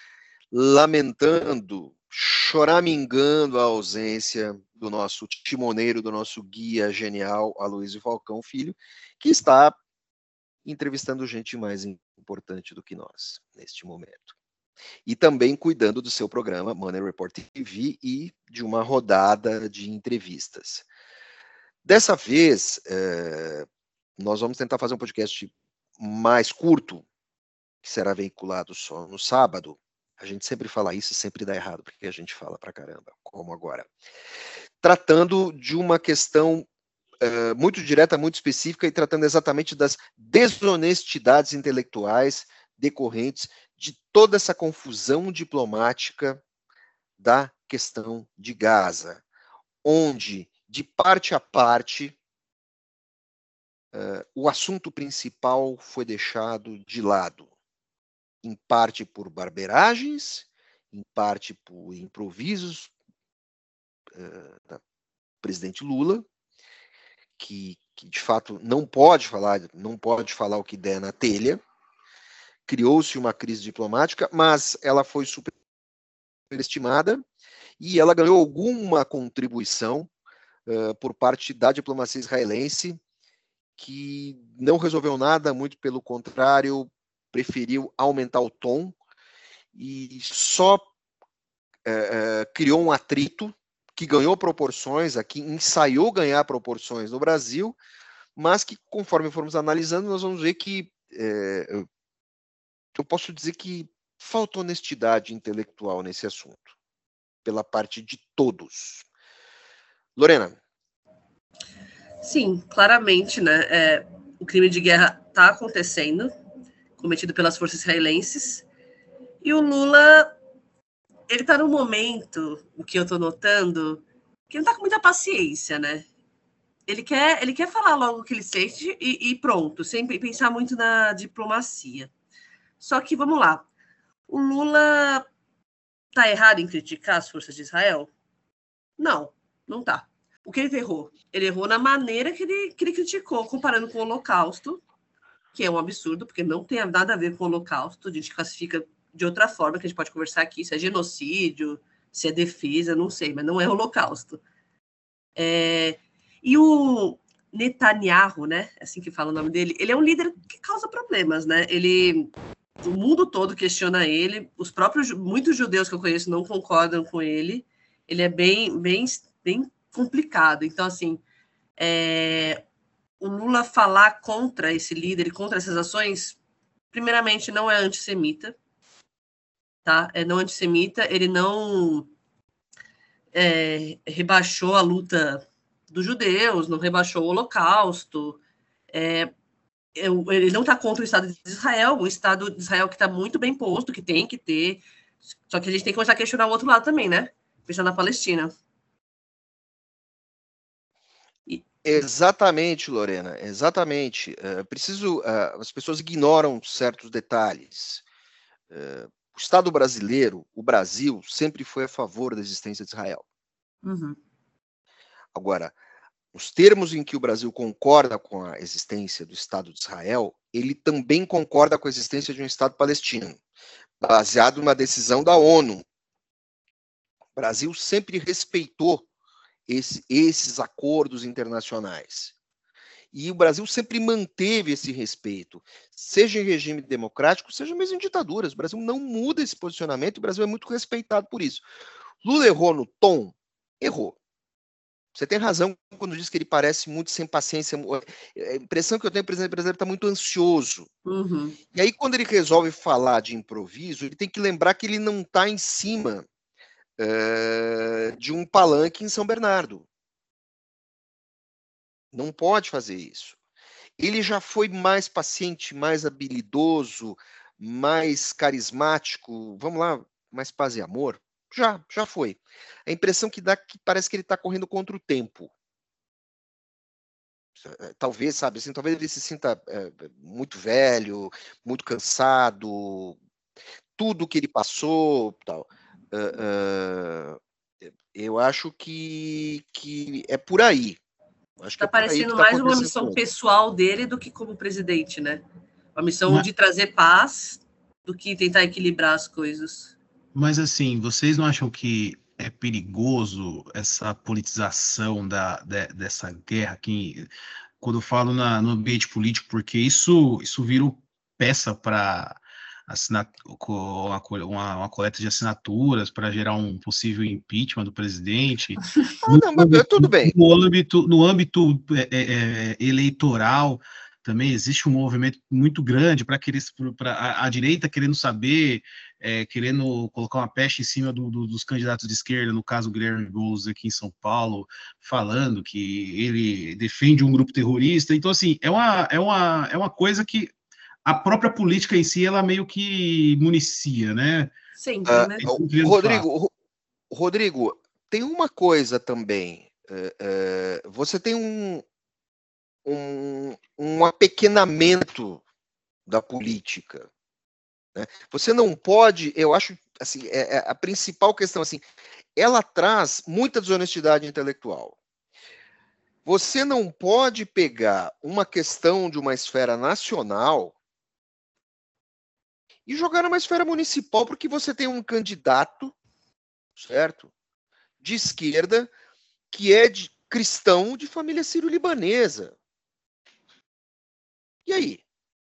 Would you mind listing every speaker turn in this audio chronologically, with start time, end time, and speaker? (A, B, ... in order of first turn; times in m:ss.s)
0:00.5-0:09.8 A
0:10.6-0:14.3 A
0:15.0-0:20.8 A
0:21.8-0:23.7 A
0:24.2-0:27.0 A
0:27.8-0:33.9 A
0:34.8-0:36.7 A
0:37.2-0:46.4 A
0:47.2-0:49.2 A
0:49.8-0:52.2 A
0:53.9-0:57.5 A
0:58.4-1:02.9 A
1:04.1-1:04.8 A
1:05.4-1:06.2 A
1:07.4-1:11.6 A
1:12.7-1:15.5 A
1:16.5-1:17.2 A
1:17.8-1:20.1 A
1:20.6-1:23.0 A
1:23.8-1:29.0 A
1:29.7-1:30.9 A
1:31.8-1:37.8 A
1:38.4-1:41.8 A
1:42.9-1:46.7 A
1:47.4-1:49.0 A
1:50.2-1:50.6 A
1:52.2-1:56.3 B
1:57.0-1:58.6 B
1:59.4-2:00.3 B
2:01.3-2:06.0 B
2:06.9-2:12.1 B
2:12.8-2:13.6 B
2:14.3-2:15.2 B
2:16.1-2:18.1 B
2:19.0-2:24.8 B
2:25.5-2:34.4 B
2:35.4-2:42.3 B
2:42.8-2:51.2 B
2:51.8-2:52.6 B
2:53.2-2:56.4 B
2:56.9-2:58.5 B
2:59.8-3:02.1 B
3:03.3-3:08.4 B
3:08.9-3:09.3 B
3:10.0-3:14.8 B
3:15.5-3:18.5 B
3:21.8-3:28.0 A
3:28.7-3:33.2 A
3:33.8-3:34.2 B
3:35.3-3:35.7 A
3:36.3-3:43.4 A
3:44.0-3:45.8 A
3:47.3-3:49.1 A
3:49.7-3:52.3 A
3:53.1-4:01.6 A
4:02.2-4:04.2 A
4:05.1-4:10.9 A
4:11.0-4:11.6 B
4:11.7-4:16.2 A
4:17.0-4:19.8 A
4:22.1-4:23.4 A
4:24.0-4:35.5 A
4:37.6-4:43.2 A
4:44.0-4:47.4 A
4:48.1-4:51.0 A
4:51.6-4:53.2 A
4:51.8-4:55.4 B
4:55.9-4:59.9 B
5:00.3-5:07.3 C
5:07.8-5:40.5 C
5:19.2-5:20.3 A
5:41.0-5:44.5 C
5:44.8-5:45.4 B
5:45.1-5:46.5 A
5:45.4-5:46.2 C
5:47.1-5:51.8 A
5:52.8-5:55.4 A
5:56.1-5:57.1 A
5:57.9-6:01.8 A
6:02.4-6:05.0 A
6:06.2-6:10.7 A
6:12.8-6:15.9 A
6:16.8-6:17.3 A
6:18.0-6:18.9 A
6:19.5-6:22.5 A
6:24.6-6:25.0 A